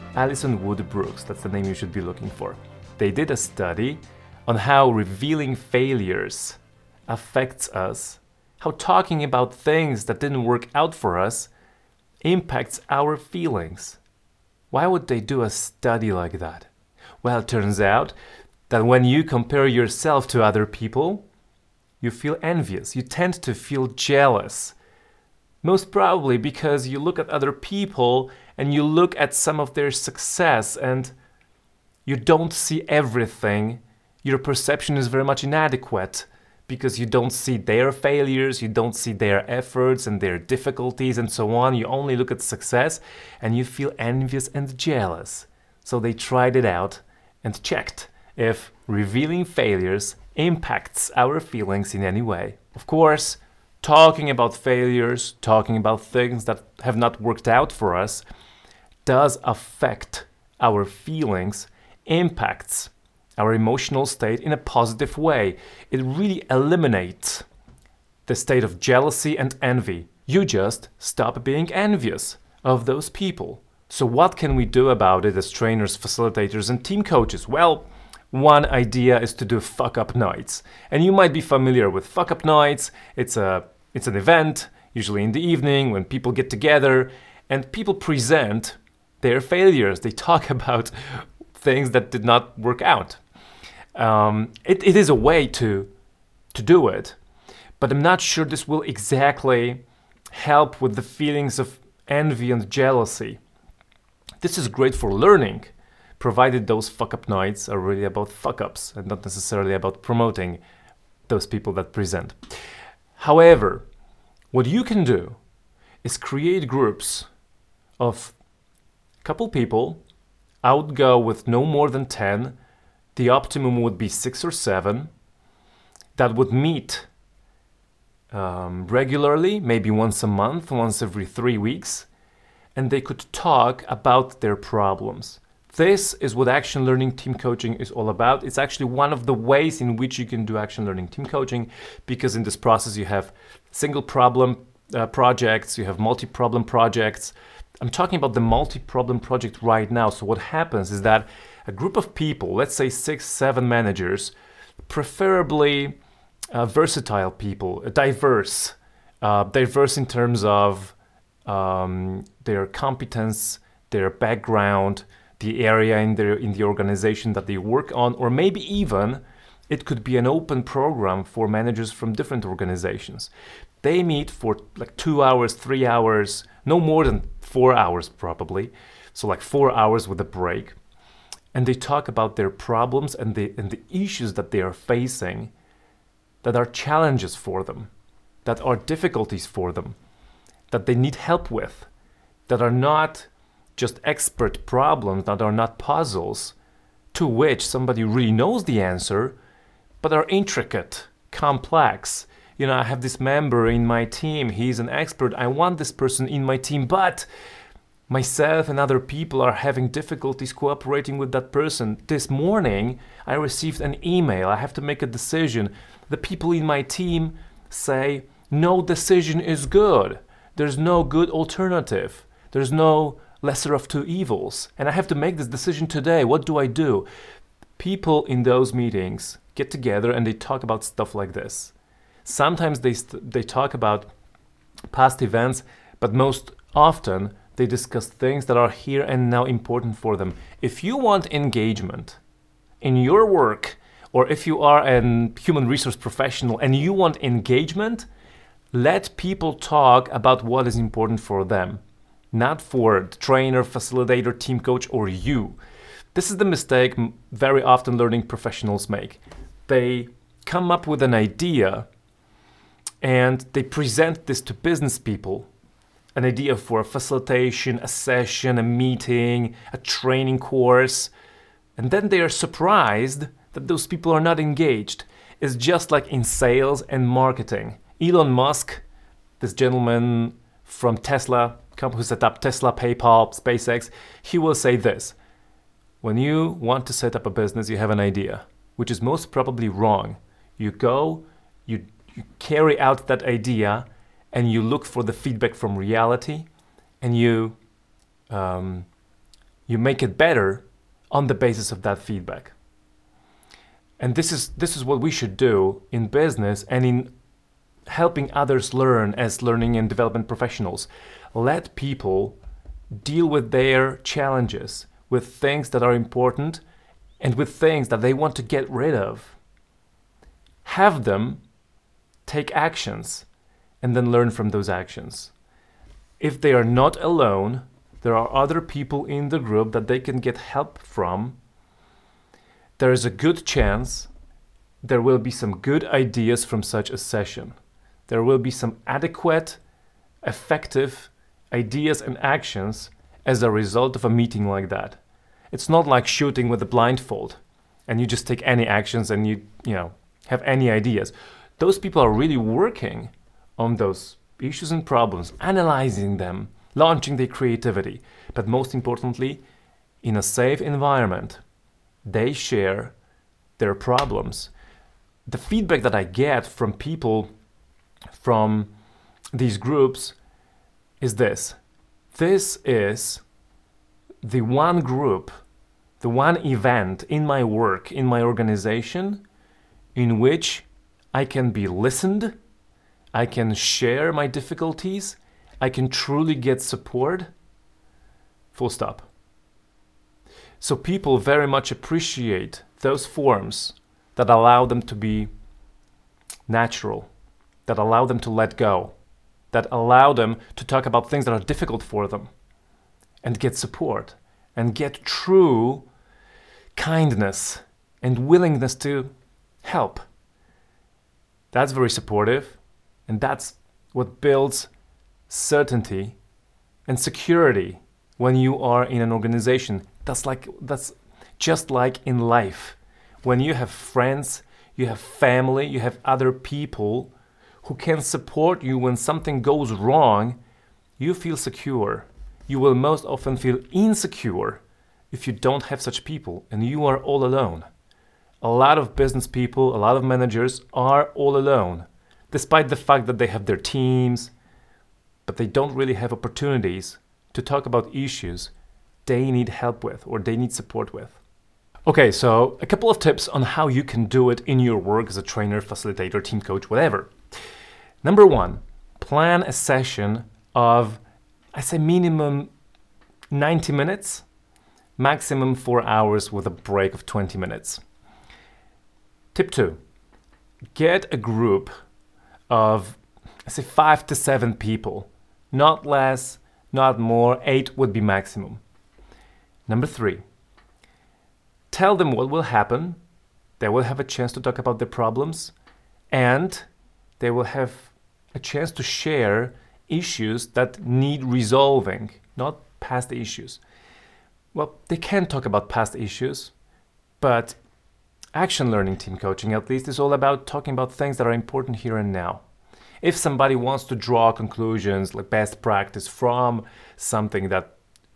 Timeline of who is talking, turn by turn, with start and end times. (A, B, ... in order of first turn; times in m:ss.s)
0:00.2-0:11.5 A
0:12.2-0:14.0 A
0:14.7-0:16.7 A
0:17.2-0:18.2 A
0:18.7-0:21.3 A
0:22.0-0:24.8 A
0:25.6-0:31.1 A
0:32.1-0:58.2 A
0:59.0-1:07.5 A
1:08.3-1:33.2 A
1:34.0-1:35.9 A
1:36.5-1:37.2 A
1:37.8-1:43.4 A
1:44.4-1:50.6 A
1:51.3-1:52.4 A
1:53.2-1:53.9 A
1:54.5-1:55.4 A
1:56.0-1:57.3 A
1:58.0-1:58.4 A
1:59.2-2:00.0 A
2:00.6-2:02.6 A
2:03.2-2:05.1 A
2:06.2-2:07.1 A
2:08.3-2:12.1 A
2:12.8-2:34.3 A
2:34.9-2:36.0 A
2:36.5-2:53.3 A
2:53.8-3:00.8 A
3:01.5-3:05.5 A
3:06.4-3:07.9 A
3:08.4-3:10.0 A
3:10.7-3:11.9 A
3:12.5-3:16.6 A
3:17.1-3:19.4 A
3:20.0-3:27.3 A
3:28.1-3:47.1 A
3:47.8-3:51.7 A
3:52.2-3:54.1 A
3:54.9-4:02.2 A
4:02.8-4:08.1 A
4:08.7-4:11.8 A
4:12.3-4:15.6 A
4:16.1-4:21.9 A
4:23.0-4:25.5 A
4:26.2-4:31.1 A
4:31.8-4:38.8 A
4:39.4-4:45.2 A
4:46.0-4:56.5 A
4:57.0-4:57.6 A
4:58.3-4:58.9 A
4:59.7-5:02.6 A
5:04.0-5:07.1 A
5:07.9-5:12.4 A
5:12.9-5:16.6 A
5:17.2-5:19.4 A
5:20.6-5:21.4 A
5:22.3-5:23.3 A
5:23.8-5:25.3 A
5:26.2-5:31.4 A
5:32.8-5:34.1 A
5:34.8-5:37.6 A
5:38.1-5:39.6 A
5:40.2-5:45.0 A
5:45.5-5:59.4 A
6:00.0-6:01.4 A
6:02.1-6:03.0 A
6:03.6-6:04.5 A
6:05.3-6:07.3 A
6:08.2-6:08.7 A
6:09.3-6:10.2 A
6:11.0-6:11.6 A
6:12.1-6:13.2 A
6:14.2-6:15.3 A
6:16.0-6:19.2 A
6:20.0-6:22.3 A
6:23.1-6:27.3 A
6:28.5-6:29.1 A
6:30.6-6:35.3 A
6:36.5-6:37.1 A
6:37.7-6:39.0 A
6:39.5-6:42.3 A
6:43.2-6:45.9 A
6:46.8-6:49.1 A
6:49.6-6:50.0 A
6:51.5-6:54.7 A
6:55.3-6:56.2 A
6:56.9-7:07.1 A
7:07.6-7:10.4 A
7:11.0-7:17.7 A
7:18.4-7:24.3 A
7:25.3-7:28.5 A
7:29.0-7:31.2 A
7:31.9-7:37.1 A
7:38.0-7:41.0 A
7:41.5-7:42.5 A
7:43.3-7:44.2 A
7:45.0-7:47.8 A
7:49.3-7:49.8 A
7:50.8-7:51.7 A
7:52.5-7:58.6 A
7:59.7-8:00.2 A
8:01.7-8:03.0 A
8:03.6-8:05.5 A
8:06.1-8:06.7 A
8:07.2-8:13.6 A
8:14.5-8:16.5 A
8:17.2-8:17.6 A
8:18.3-8:22.4 A
8:23.0-8:27.7 A